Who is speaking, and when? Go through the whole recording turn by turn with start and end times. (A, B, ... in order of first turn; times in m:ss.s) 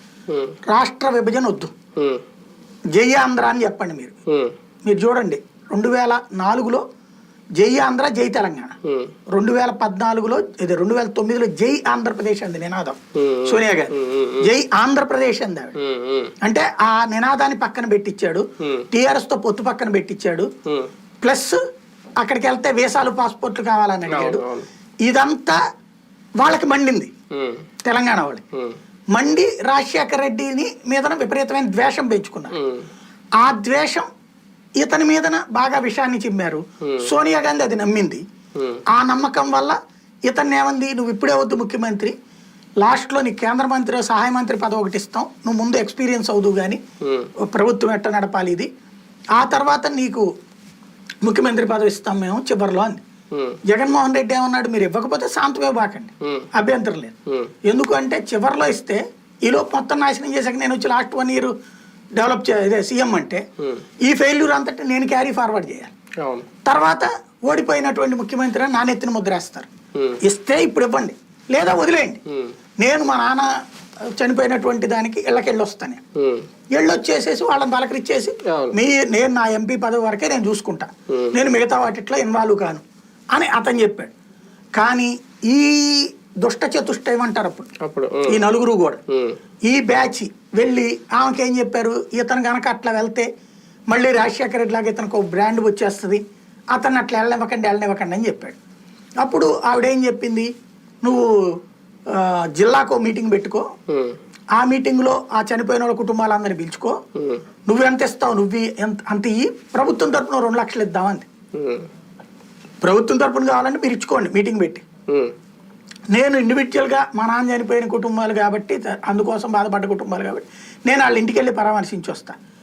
0:00.3-0:00.6 A
0:00.7-0:01.7 B
0:02.0-0:02.2 A
0:02.9-0:04.1 B
0:04.3-0:04.6 A
0:04.9-0:06.8 B
0:07.6-0:08.8 B
0:08.8-0:09.1 A
0:09.3-0:15.8 B
0:13.2-0:14.5 A
0:15.8-0:16.3 A
0:16.4-0:20.5 B
0:18.6-0:18.9 A
0:21.2-0:21.6 B
0:22.2-0:24.4 B
0:24.1-0:24.7 A
0:25.0-0:25.6 B
0:26.4-0:27.1 B
0:27.3-0:27.6 A
0:27.8-0:28.4 B
0:29.1-0:32.6 B
0:32.6-0:32.9 A
0:33.4-0:34.1 B
0:34.8-0:38.2 B
0:36.8-0:37.1 A
0:38.6-0:38.8 A
0:38.9-0:39.8 B
0:40.3-0:42.1 B
0:42.8-0:46.8 B
0:47.0-0:47.3 A
0:47.4-0:48.7 B
0:49.4-0:50.2 B
0:51.2-0:53.0 B
0:53.3-0:53.6 A
0:53.6-1:01.5 B
0:56.2-0:56.5 A
1:02.2-1:03.4 B
1:04.0-1:05.9 B
1:06.2-1:06.5 A
1:06.6-1:09.7 B
1:10.2-1:12.2 B
1:12.8-1:13.5 B
1:14.2-1:16.0 B
1:16.2-1:16.5 A
1:16.8-1:22.8 B
1:18.5-1:18.8 A
1:23.3-1:24.1 B
1:24.8-1:27.7 B
1:27.8-1:28.4 A
1:28.3-1:29.0 B
1:29.1-1:29.4 A
1:29.7-1:33.3 B
1:33.9-1:36.2 B
1:36.7-1:38.6 B
1:39.2-1:40.5 B
1:41.0-1:41.3 B
1:42.1-1:43.6 B
1:43.9-1:44.2 A
1:44.6-1:47.0 B
1:47.2-1:47.4 A
1:47.7-1:51.3 B
1:51.6-1:51.9 A
1:52.8-1:54.8 B
1:56.1-2:02.4 B